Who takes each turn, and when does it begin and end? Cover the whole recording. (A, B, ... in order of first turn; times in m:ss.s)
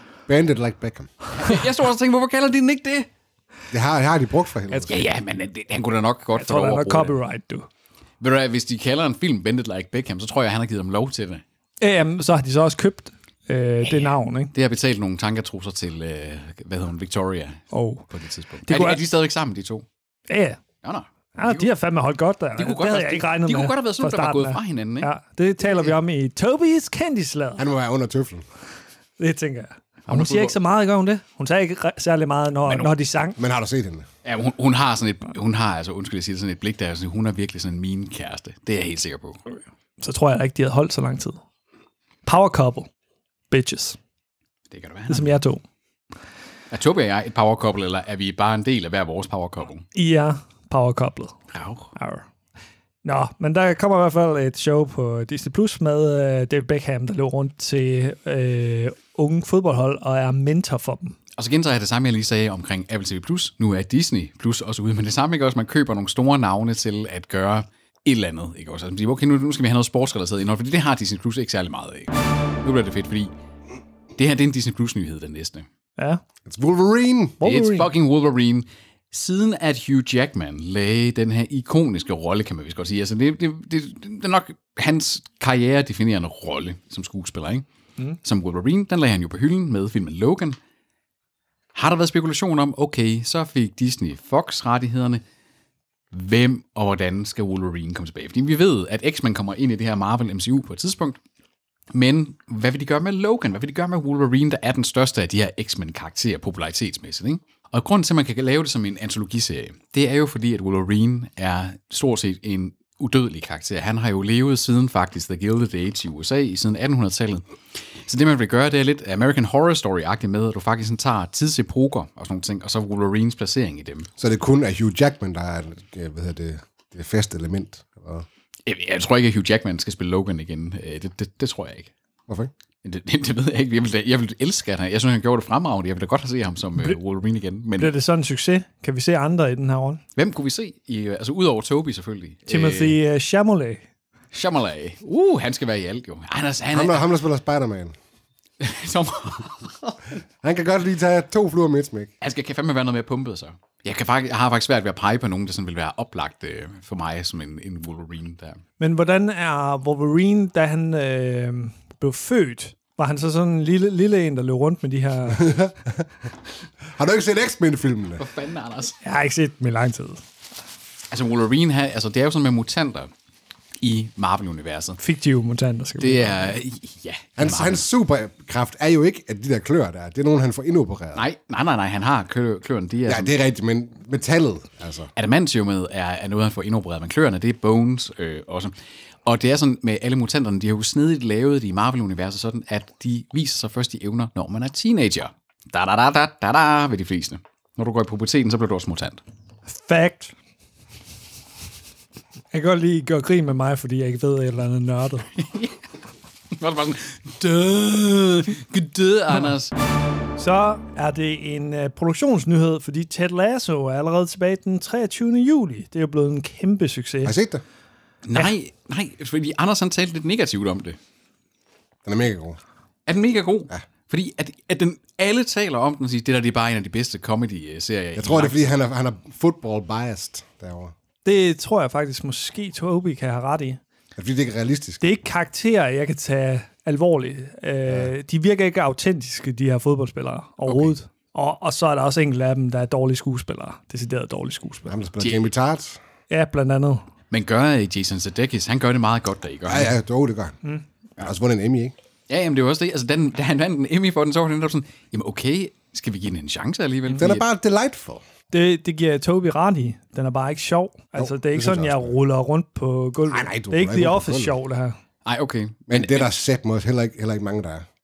0:00.3-0:01.1 A
0:01.4-0:03.1 B
0:03.7-0:05.0 A
0:04.7-0:07.2 B
0:06.3-0:07.7 C
0:08.2-0:11.4 B
0:11.8-0:14.5 C
0:13.8-0:19.9 B
0:17.7-0:18.1 C
0:18.6-0:19.0 C
0:20.3-0:20.6 C
0:20.8-0:21.7 B
0:21.4-0:27.6 C
0:22.6-0:25.1 B
0:27.6-0:28.4 A
0:29.2-0:33.4 C
0:30.1-0:30.6 B
0:32.7-0:32.9 B
0:33.4-0:34.1 A
0:34.2-0:39.4 B
0:40.0-0:41.4 C
0:42.2-0:42.9 C
0:43.5-0:44.0 C
0:44.7-0:45.4 B
0:45.1-0:45.6 C
0:46.7-0:49.8 B
0:49.9-0:51.4 C
0:51.5-0:51.9 B
0:52.0-0:52.3 C
0:53.0-1:01.2 C
1:01.4-1:13.4 B
1:14.2-1:15.7 B
1:16.0-1:16.2 C
1:16.5-1:17.4 A
1:17.4-1:17.9 C
1:17.4-1:27.7 B
1:28.2-1:30.6 B
1:31.7-1:35.2 B
1:36.1-1:41.2 B
1:41.9-2:04.1 B
2:04.2-2:08.3 A
2:08.7-2:11.9 B
2:12.8-2:17.9 B
2:17.8-2:20.0 C
2:20.2-2:23.0 B
2:22.5-2:23.8 C
2:24.3-2:27.1 B
2:26.7-2:27.9 A
2:28.6-2:30.2 B
2:30.4-2:32.1 A
2:32.2-2:38.6 B
2:38.8-2:45.6 C
2:45.4-2:46.0 A
2:47.0-2:48.2 A
2:48.2-2:49.0 B
2:49.0-2:50.2 C
2:51.1-2:53.1 B
2:53.8-2:55.0 B
2:55.0-2:56.5 C
2:56.0-2:57.8 B
2:57.4-3:01.2 A
3:01.2-3:03.3 B
3:03.1-3:05.1 A
3:05.2-3:08.7 B
3:09.2-3:19.2 B
3:19.7-3:20.3 C
3:22.5-3:25.3 C
3:25.4-3:25.8 B
3:26.5-3:29.7 B
3:30.4-3:37.3 C
3:37.2-3:37.6 A
3:38.2-3:41.0 B
3:42.1-3:42.6 A
3:43.1-3:48.8 B
3:48.2-3:50.9 A
3:51.2-3:53.8 C
3:54.2-3:55.1 A
3:55.0-4:04.9 C
4:04.9-4:06.0 A
4:05.2-4:05.5 B
4:06.3-4:07.0 C
4:07.3-4:09.9 B
4:09.7-4:10.6 A
4:11.2-4:11.9 A
4:12.3-4:17.4 B
4:17.2-4:18.2 A
4:18.5-4:25.0 C
4:21.2-4:22.1 A
4:23.3-4:24.5 A
4:25.2-4:26.3 B
4:25.9-4:27.8 A